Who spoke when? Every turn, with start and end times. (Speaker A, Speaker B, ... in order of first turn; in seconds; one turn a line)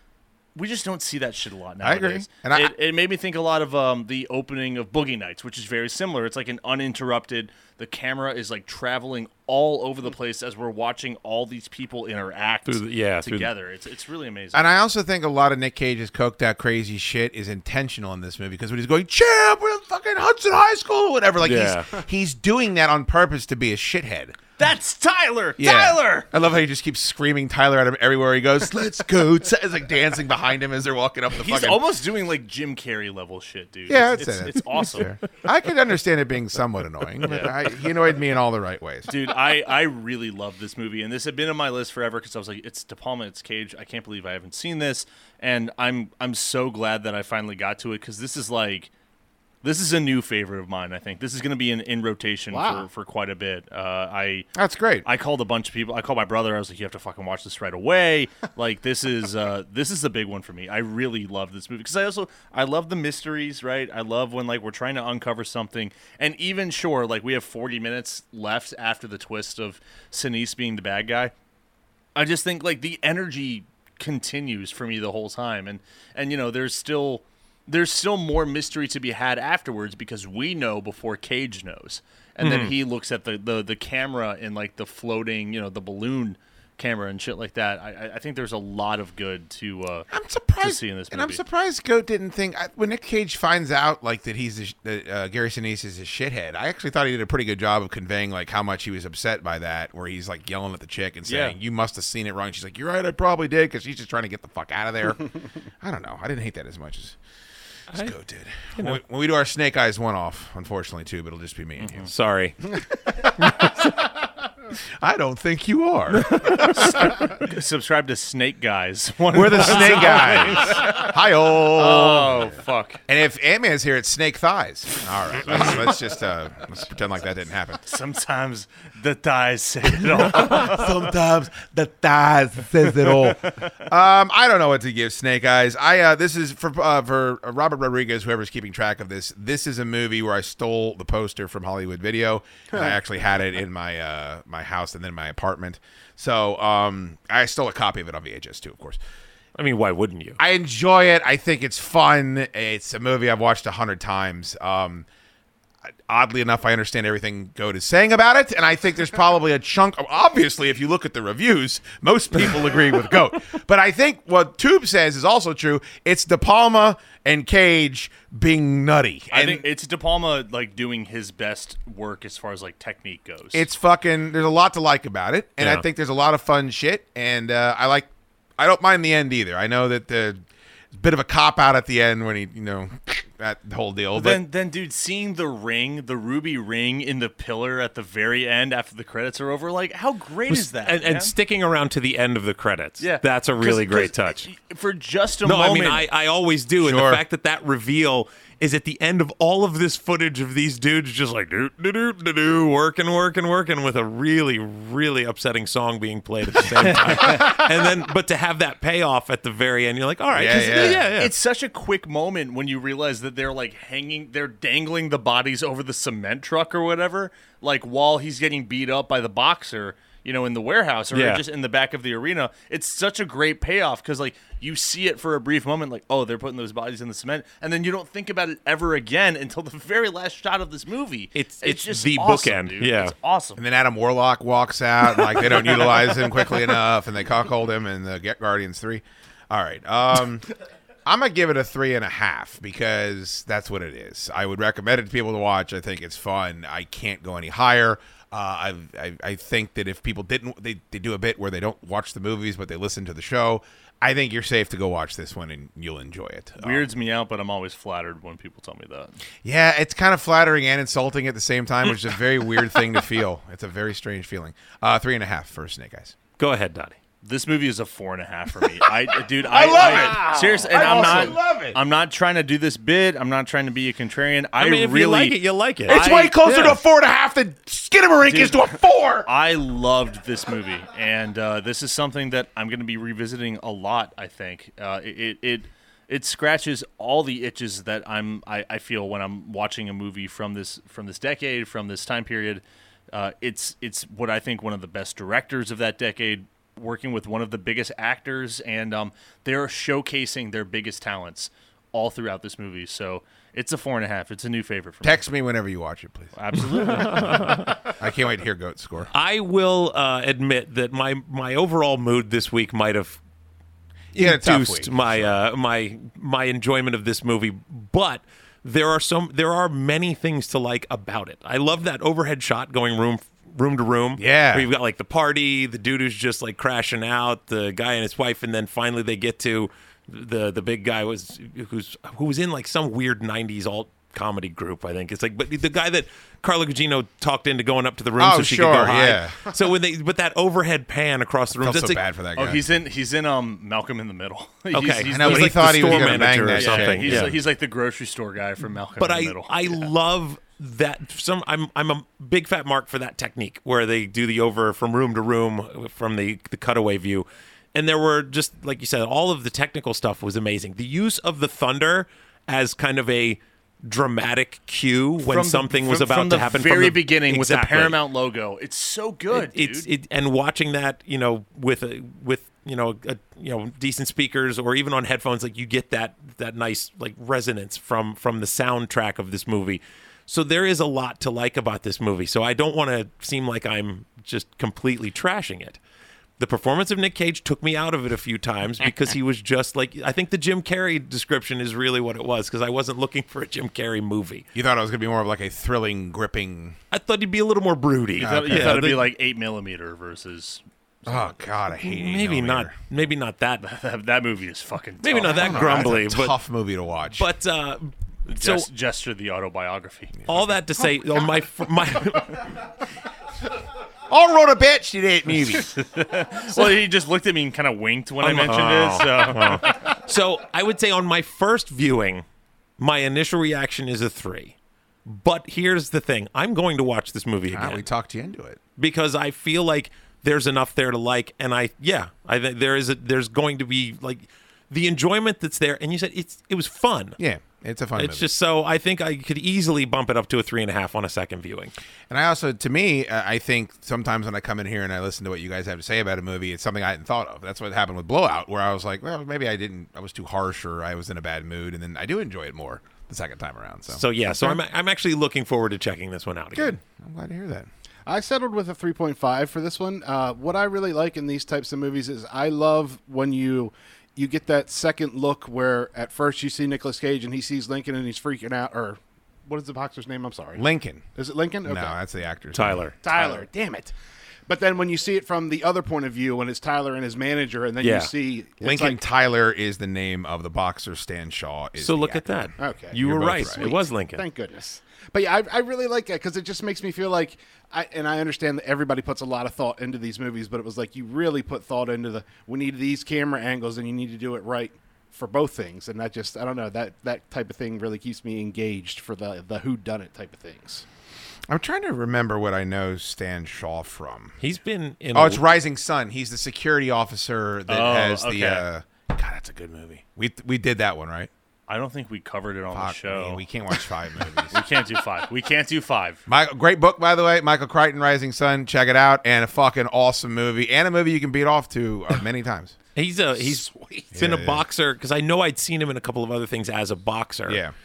Speaker A: 0.5-14.7
Speaker B: 1.8-2.7
Speaker C: 12.7-13.5
Speaker B: 14.5-24.4
Speaker C: 21.4-21.9
Speaker A: 24.6-26.3
Speaker B: 25.6-31.8
Speaker A: 31.3-35.1
Speaker B: 33.9-39.1
Speaker A: 37.2-37.5
Speaker A: 39.1-48.9
Speaker A: 49.6-54.5
Speaker D: 52.5-52.9
Speaker B: 54.5-55.0
Speaker A: 55.0-71.3
Speaker A: 72.1-90.1
Speaker C: 82.4-82.7
Speaker B: 90.1-105.3
Speaker A: 90.6-91.4
Speaker A: 101.3-101.5
Speaker B: 105.8-107.2
Speaker B: 107.9-112.1
Speaker C: 112.0-112.6
Speaker C: 113.4-113.9
Speaker B: 115.0-116.9
Speaker C: 116.2-117.1
Speaker A: 116.6-123.0
Speaker B: 119.3-127.8
Speaker A: 127.9-130.9
Speaker B: 130.1-149.0
Speaker A: 132.9-133.7
Speaker C: 149.6-150.4
Speaker B: 150.4-155.1
Speaker B: 156.1-169.7
Speaker A: 169.3-173.7
Speaker B: 173.5-184.4
Speaker A: 184.1-191.3
Speaker C: 190.5-194.5
Speaker A: 193.0-196.1
Speaker C: 195.4-211.3
Speaker B: 196.8-197.2
Speaker A: 207.0-207.6
Speaker B: 210.3-211.1
Speaker A: 210.7-233.6
Speaker C: 221.1-221.4
Speaker C: 231.3-233.1
Speaker B: 233.6-240.4
Speaker B: 241.1-256.9
Speaker A: 256.6-259.2
Speaker B: 259.4-266.1
Speaker C: 266.4-266.9
Speaker A: 267.2-276.8
Speaker B: 269.4-271.8
Speaker C: 274.6-276.6
Speaker B: 275.9-279.3
Speaker A: 278.2-305.2
Speaker B: 305.0-306.3
Speaker A: 306.3-307.8
Speaker C: 306.8-307.8
Speaker B: 307.8-309.1
Speaker C: 309.1-313.2
Speaker B: 314.1-315.4
Speaker C: 314.1-342.0
Speaker B: 324.1-324.7
Speaker B: 338.2-339.4
Speaker B: 341.6-342.6
Speaker A: 342.4-349.9
Speaker C: 344.7-347.4
Speaker B: 345.1-347.4
Speaker C: 349.0-368.0
Speaker A: 365.2-369.9
Speaker C: 369.3-385.8
Speaker C: 386.4-394.4
Speaker B: 394.5-396.8
Speaker C: 396.9-399.1
Speaker B: 398.2-398.8
Speaker A: 398.2-401.3
Speaker B: 401.1-402.7
Speaker C: 401.8-403.6
Speaker A: 403.6-406.0
Speaker C: 405.0-406.3
Speaker B: 405.3-407.3
Speaker C: 407.2-408.7
Speaker A: 408.3-410.2
Speaker B: 410.2-410.5
Speaker C: 410.3-412.7
Speaker B: 414.1-415.7
Speaker A: 415.6-419.9
Speaker C: 418.2-422.2
Speaker C: 422.8-427.8
Speaker B: 427.5-428.6
Speaker C: 428.8-437.2
Speaker B: 437.2-438.3
Speaker C: 437.9-441.7
Speaker B: 442.1-454.6
Speaker C: 453.9-456.8
Speaker B: 456.5-457.7
Speaker D: 458.1-472.0
Speaker B: 470.5-471.0
Speaker B: 471.6-473.4
Speaker C: 472.5-472.9
Speaker D: 473.0-473.9
Speaker D: 474.5-479.0
Speaker C: 477.8-478.1
Speaker B: 478.6-483.7
Speaker C: 481.8-484.2
Speaker D: 482.6-500.8
Speaker B: 501.5-504.4
Speaker C: 504.4-505.4
Speaker B: 505.1-511.3
Speaker A: 507.7-508.7
Speaker A: 511.7-513.4
Speaker B: 512.7-514.6
Speaker A: 514.5-516.2
Speaker B: 516.3-522.8
Speaker C: 523.0-527.6
Speaker D: 523.3-524.1
Speaker B: 524.1-524.7
Speaker B: 527.5-527.7